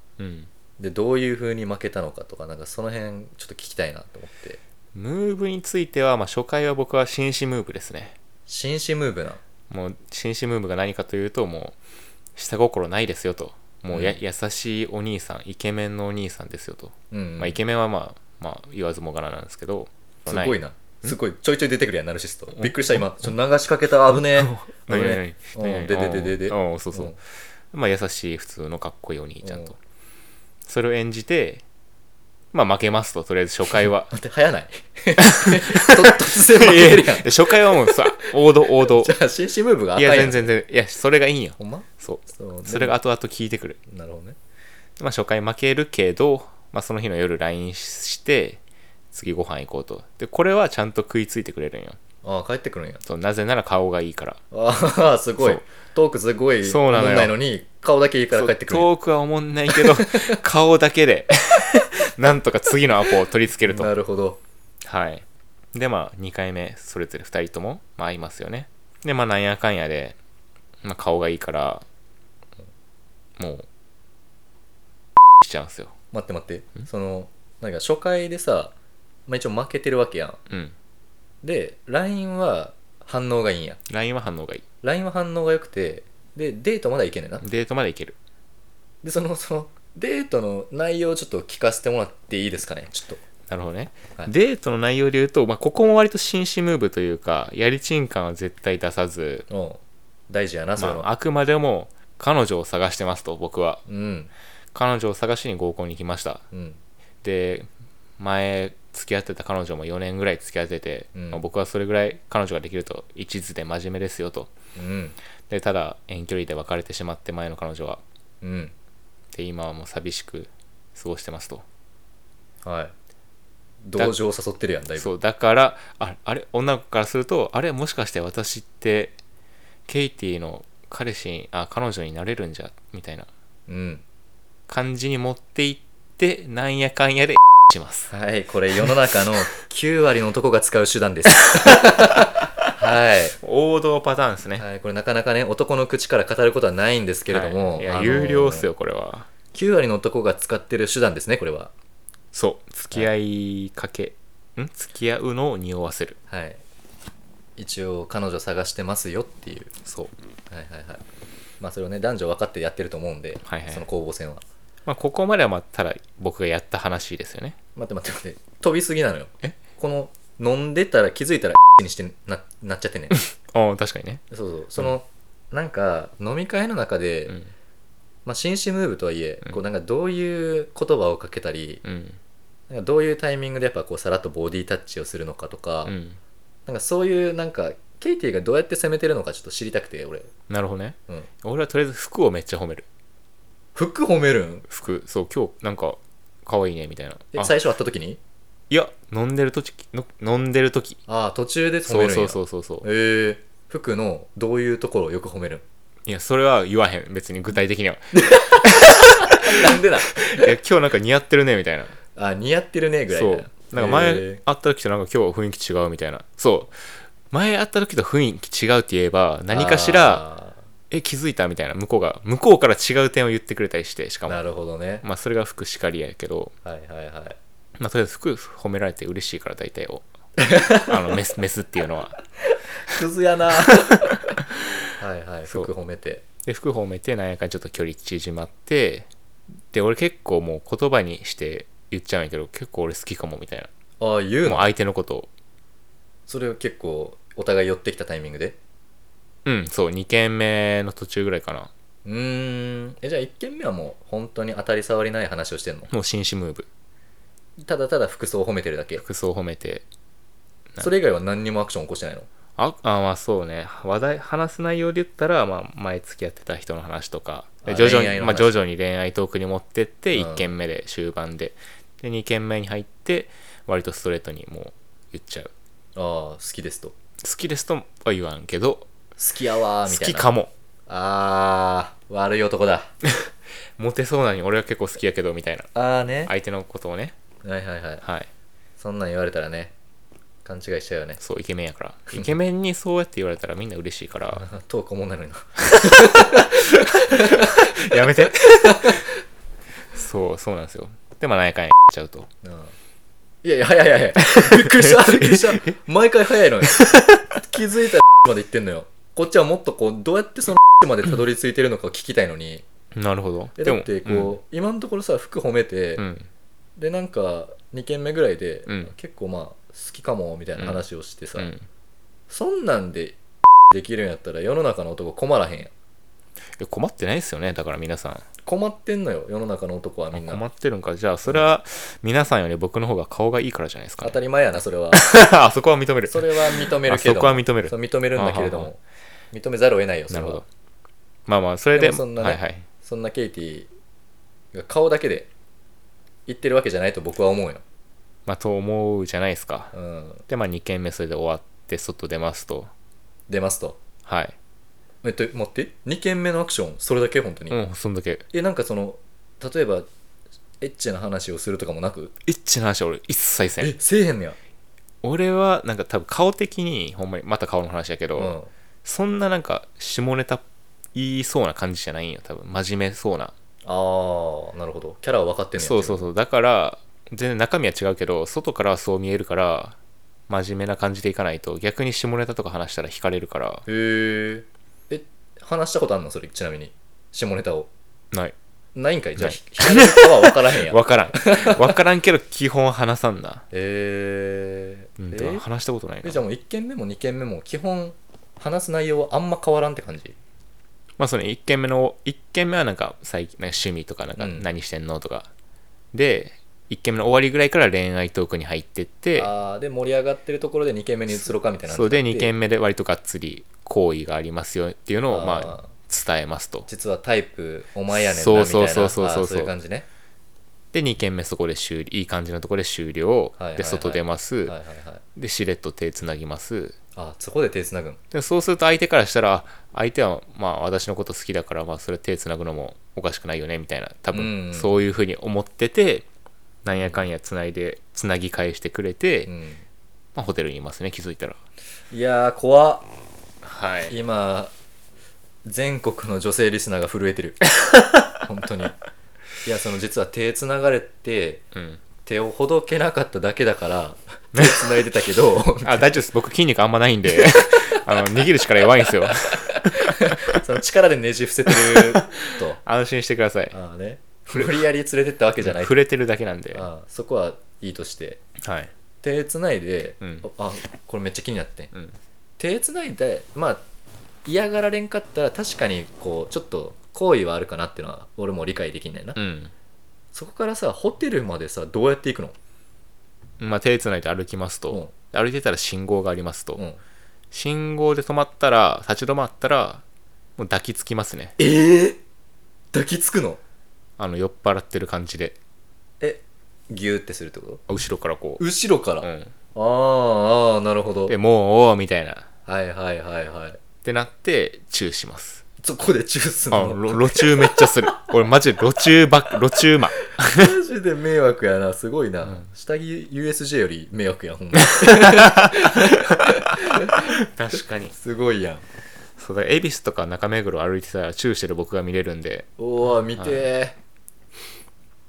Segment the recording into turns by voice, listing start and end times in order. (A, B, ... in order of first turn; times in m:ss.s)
0:00.2-0:00.5 A
0:00.8-0:04.6 B
0:05.0-0:08.2 A
0:08.5-0:09.4 B
0:09.7-0:11.8 A
0:12.4-0:21.2 A
0:13.9-0:14.2 B
0:17.1-0:17.6 B
0:20.3-0:27.2 B
0:22.6-0:22.9 A
0:24.3-0:27.2 A
0:27.7-0:29.8 A
0:29.4-0:29.7 B
0:30.7-0:31.6 A
0:32.5-0:34.1 A
0:34.1-0:40.5 B
0:35.2-0:39.2 A
0:40.0-0:43.8 A
0:41.6-0:43.0 B
0:43.9-0:44.4 B
0:45.0-0:48.6 A
0:49.1-0:52.0 A
0:52.2-0:53.0 B
0:53.0-0:54.4 A
0:54.5-0:58.9 B
0:56.6-0:57.4 A
0:58.3-1:03.9 A
0:59.7-1:00.4 B
1:03.7-1:04.4 B
1:04.8-1:10.2 A
1:10.8-1:11.8 A
1:13.4-1:13.7 A
1:15.4-1:15.9 A
1:16.1-1:18.7 B
1:19.3-1:20.4 B
1:20.5-1:20.7 A
1:21.4-1:23.8 B
1:23.9-1:24.6 A
1:24.8-1:27.4 B
1:27.4-1:28.2 A
1:29.0-1:33.2 B
1:33.5-1:39.5 A
1:39.5-1:41.1 B
1:40.8-1:43.8 A
1:43.9-1:44.3 B
1:44.7-1:46.4 A
1:46.5-1:46.8 B
1:47.2-1:54.5 A
1:51.2-1:51.4 B
1:54.8-1:55.2 B
1:55.5-1:58.0 A
1:58.4-1:58.7 B
1:59.3-2:01.6 A
2:02.6-2:02.9 B
2:03.8-2:05.1 B
2:05.0-2:09.2 A
2:09.9-2:13.3 A
2:13.7-2:14.0 B
2:14.7-2:18.1 A
2:18.1-2:23.4 B
2:23.4-2:24.6 A
2:24.6-2:28.7 B
2:27.3-2:29.3 A
2:29.5-2:31.7 B
2:32.3-2:36.2 A
2:36.3-2:36.6 B
2:37.6-2:39.7 B
2:39.8-2:40.1 A
2:40.5-2:41.0 B
2:41.6-2:44.4 B
2:43.4-2:43.8 A
2:44.9-2:47.6 A
2:47.8-2:53.2 B
2:53.1-2:54.2 A
2:54.3-2:57.4 B
2:58.3-3:01.8 B
3:01.8-3:02.2 A
3:02.7-3:06.0 B
3:05.8-3:06.2 A
3:06.7-3:10.3 B
3:10.5-3:12.9 A
3:13.8-3:14.7 B
3:14.7-3:17.5 A
3:17.3-3:18.2 B
3:18.7-3:21.0 A
3:21.1-3:25.6 B
3:21.8-3:22.9 A
3:26.1-3:29.6 A
3:28.2-3:30.5 B
3:30.2-3:32.0 A
3:32.2-3:34.4 B
3:33.1-3:36.8 A
3:37.3-3:40.2 A
3:39.5-3:40.6 B
3:40.9-3:44.4 A
3:44.3-3:45.0 B
3:45.0-3:46.5 A
3:46.6-3:47.4 B
3:47.8-3:50.1 A
3:50.4-3:51.0 B
3:50.8-3:52.2 A
3:52.5-3:54.2 B
3:53.7-3:54.6 A
3:55.0-3:56.2 B
3:56.4-3:59.1 A
3:59.7-4:03.7 A
4:04.0-4:04.7 B
4:04.4-4:05.3 A
4:06.3-4:08.6 B
4:09.4-4:11.7 A
4:12.0-4:15.9 B
4:15.9-4:16.7 A
4:17.6-4:19.0 B
4:19.0-4:19.8 A
4:20.8-4:22.3 B
4:22.6-4:35.5 A
4:27.6-4:28.6 B
4:30.2-4:30.5 B
4:36.0-4:36.9 B
4:37.2-4:38.9 A
4:39.2-4:40.3 B
4:39.9-4:40.5 A
4:40.9-4:42.9 B
4:43.0-4:45.7 A
4:45.7-4:46.3 B
4:46.3-4:47.2 A
4:47.4-4:48.0 B
4:48.0-4:48.3 A
4:48.8-4:49.7 B
4:50.4-4:51.2 B
4:51.2-4:54.4 A
4:54.4-4:59.1 B
4:55.7-4:59.1 A
4:59.9-5:02.3 A
5:02.4-5:02.7 B
5:03.4-5:06.8 B
5:04.3-5:05.8 A
5:06.6-5:07.3 A
5:07.4-5:12.6 B
5:12.9-5:14.4 A
5:13.6-5:16.1 B
5:16.0-5:16.3 A
5:16.8-5:21.5 B
5:18.7-5:18.9 A
5:20.6-5:20.8 A
5:21.4-5:21.7 A
5:22.3-5:23.2 B
5:23.7-5:25.7 B
5:26.6-5:28.2 A
5:28.4-5:30.4 B
5:30.1-5:34.2 A
5:34.0-5:35.1 B
5:34.9-5:38.7 A
5:36.1-5:38.8 B
5:39.3-5:40.4 B
5:40.1-5:40.4 A
5:41.3-5:42.6 A
5:41.7-5:43.7 B
5:44.5-5:45.3 B
5:46.3-5:47.6 B
5:48.3-5:49.7 A
5:49.7-5:50.2 B
5:50.3-5:52.7 A
5:53.3-5:53.8 B
5:54.1-5:54.4 A
5:55.0-5:57.6 B
5:57.5-5:58.3 A
5:58.3-5:59.9 B
6:00.6-6:02.1 B
6:02.2-6:03.7 A
6:03.6-6:04.4 B
6:05.0-6:10.4 A
6:08.2-6:08.5 B
6:10.9-6:13.3 A
6:13.6-6:16.1 B
6:15.6-6:19.8 A
6:20.3-6:23.6 A
6:23.7-6:27.7 B
6:28.8-6:31.8 B
6:29.2-6:33.4 A
6:33.5-6:35.4 B
6:35.0-6:36.2 A
6:36.0-6:40.2 B
6:41.0-6:45.3 A
6:44.2-6:44.5 B
6:45.9-6:49.3 A
6:49.2-6:52.3 B
6:51.2-6:56.7 A
6:55.1-6:55.7 B
6:56.7-6:59.9 B
6:57.9-6:59.5 A
7:00.7-7:04.6 A
7:03.4-7:05.0 B
7:05.2-7:06.8 A
7:07.0-7:08.0 B
7:08.1-7:16.1 A
7:14.1-7:14.7 B
7:16.6-7:19.3 A
7:19.3-7:19.6 B
7:20.2-7:21.4 A
7:21.9-7:22.9 B
7:23.4-7:24.0 A
7:23.9-7:24.5 B
7:25.4-7:27.4 B
7:27.6-7:28.1 A
7:28.2-7:28.8 B
7:29.4-7:31.4 B
7:31.6-7:31.8 A
7:32.0-7:35.9 B
7:34.4-7:34.8 A
7:35.6-7:40.4 A
7:39.4-7:42.6 B
7:41.5-7:43.6 A
7:43.5-7:45.8 B
7:45.4-7:46.7 A
7:46.5-7:48.2 B
7:48.4-7:48.7 A
7:49.0-7:51.7 B
7:50.0-7:50.3 A
7:52.4-7:53.6 B
7:54.2-7:59.2 B
7:59.2-7:59.5 A
8:00.1-8:02.4 B
8:03.4-8:06.6 A
8:07.3-8:09.8 A
8:10.4-8:11.4 A
8:11.4-8:12.0 B
8:12.7-8:13.4 B
8:14.0-8:15.4 A
8:16.0-8:17.6 B
8:17.7-8:18.4 A
8:18.4-8:21.2 B
8:19.0-8:19.3 A
8:21.1-8:22.3 A
8:22.5-8:23.6 B
8:23.8-8:25.4 A
8:25.6-8:28.1 B
8:26.5-8:30.5 A
8:30.2-8:38.6 B
8:34.7-8:38.0 A
8:39.2-8:42.5 A
8:42.6-8:43.8 B
8:43.2-8:43.5 A